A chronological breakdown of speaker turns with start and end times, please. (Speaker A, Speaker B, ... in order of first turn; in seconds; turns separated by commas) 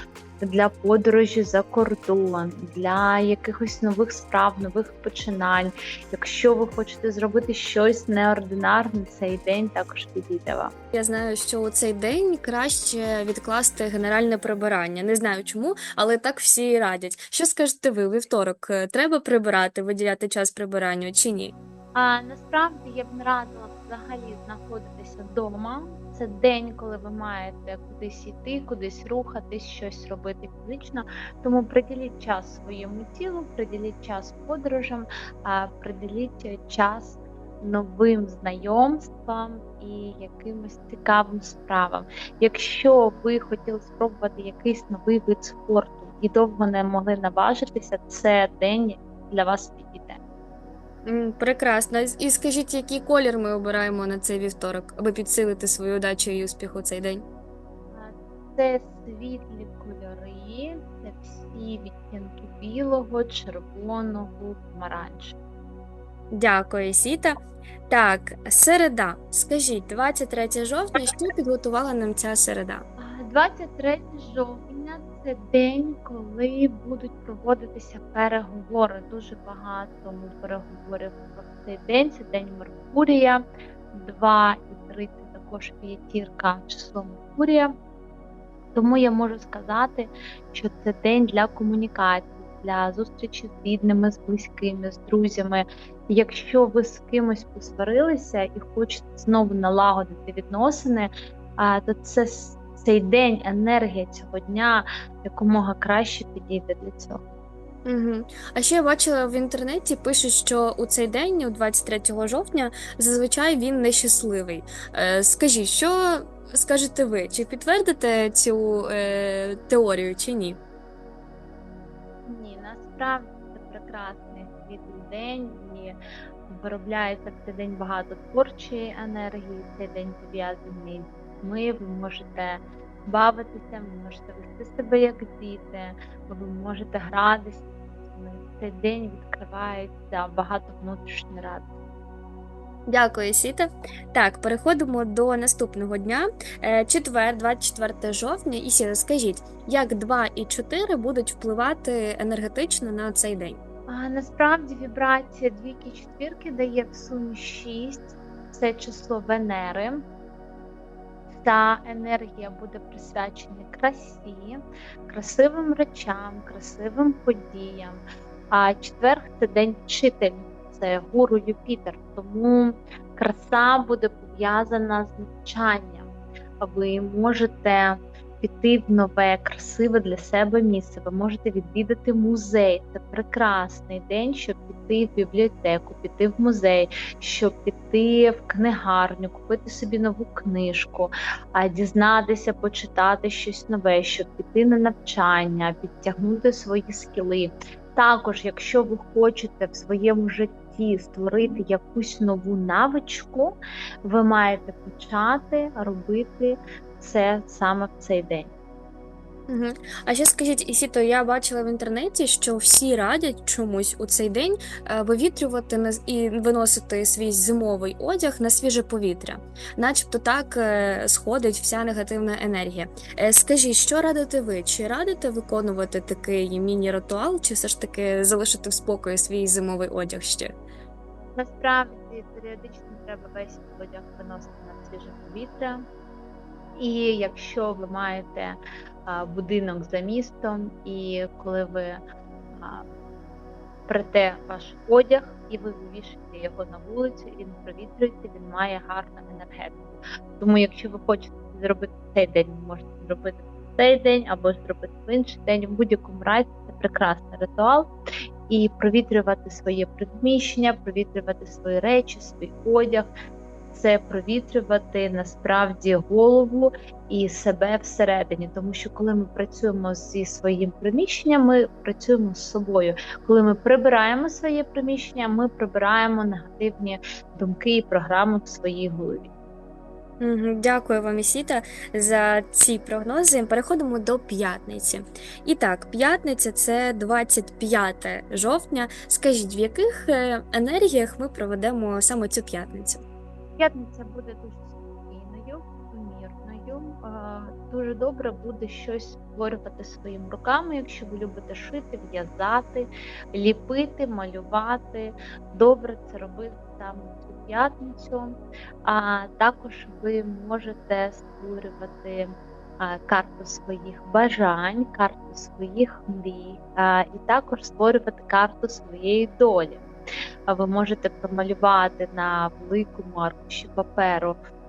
Speaker A: 0.4-10.7, Speaker B: 10.9-21.5, Speaker A: 21.9-50.2, Speaker B: 51.0-57.2, Speaker A: 57.9-65.3, Speaker B: 66.3-72.8, Speaker A: 73.0-87.7, Speaker A: 88.7-107.2, Speaker B: 107.8-120.6, Speaker A: 122.2-126.0, Speaker A: 126.5-141.6, Speaker B: 142.9-153.6, Speaker A: 153.9-160.0, Speaker A: 161.3-176.1, Speaker A: 176.6-208.5, Speaker B: 209.5-230.6, Speaker A: 231.3-235.8, Speaker A: 236.8-242.0, Speaker A: 242.5-242.8, Speaker A: 243.9-257.9, Speaker A: 258.5-263.1, Speaker A: 263.7-279.3, Speaker B: 280.2-293.0, Speaker A: 293.6-308.3, Speaker A: 308.8-312.3, Speaker A: 312.8-319.9, Speaker A: 320.5-324.4